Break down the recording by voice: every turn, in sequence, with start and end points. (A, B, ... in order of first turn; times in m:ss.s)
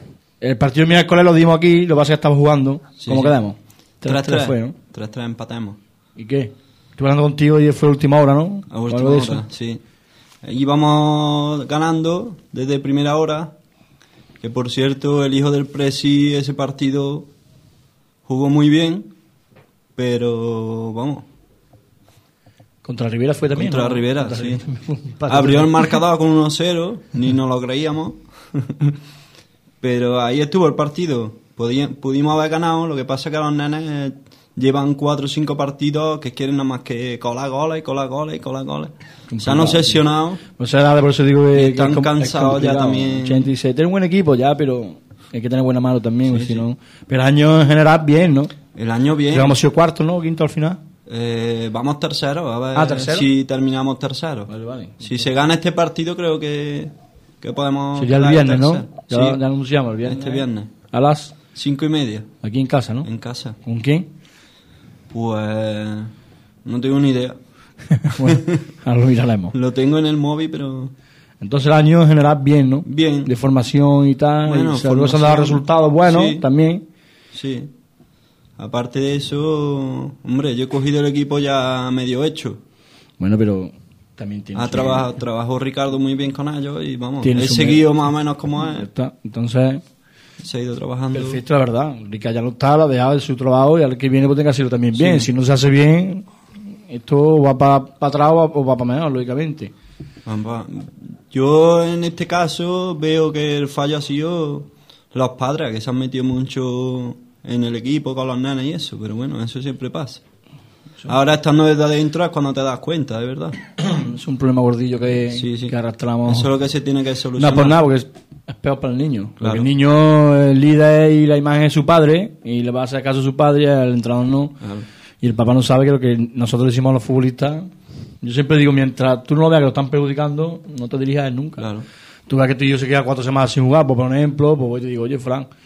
0:00.4-0:04.7 A
0:03.0-0:03.4 B
0:04.0-0:05.8 B
0:06.2-0:09.4 A
0:08.7-0:09.8 B
0:10.4-0:13.5 B
0:14.4-0:17.3 B
0:18.2-0:19.1 B
0:20.0-0:21.2 B
0:22.8-0:26.0 A
0:23.6-0:24.6 B
0:25.3-0:29.0 B
0:29.8-0:40.4 B
0:39.3-0:40.0 A
0:40.6-0:48.5 A
0:41.5-0:43.5 B
0:46.3-0:46.6 B
0:48.8-0:49.6 B
0:49.3-0:50.8 A
0:51.1-0:54.5 B
0:52.8-0:53.3 A
0:54.5-0:55.3 A
0:55.0-0:59.4 B
0:58.0-1:01.4 A
1:00.0-1:00.7 B
1:01.5-1:02.3 B
1:02.4-1:03.1 A
1:03.0-1:03.6 B
1:03.6-1:04.1 A
1:05.1-1:06.1 B
1:06.6-1:07.4 B
1:07.9-1:09.5 A
1:08.2-1:08.6 B
1:09.5-1:10.9 B
1:11.4-1:16.8 A
1:12.9-1:13.3 B
1:14.4-1:16.4 B
1:17.3-1:17.7 B
1:18.6-1:22.6 B
1:23.2-1:25.1 A
1:24.5-1:28.9 B
1:27.2-1:27.9 A
1:28.6-1:29.8 A
1:30.4-1:31.4 B
1:31.1-1:36.3 A
1:34.9-1:35.3 B
1:36.9-1:39.7 A
1:40.2-1:50.2 B
1:51.1-1:53.6 B
1:53.8-1:56.5 A
1:55.3-1:55.7 B
1:56.2-1:57.8 B
1:57.4-2:04.6 A
1:59.4-1:59.7 B
2:04.6-2:04.9 B
2:05.2-2:07.7 A
2:08.2-2:11.7 A
2:11.6-2:11.9 B
2:12.3-2:15.5 A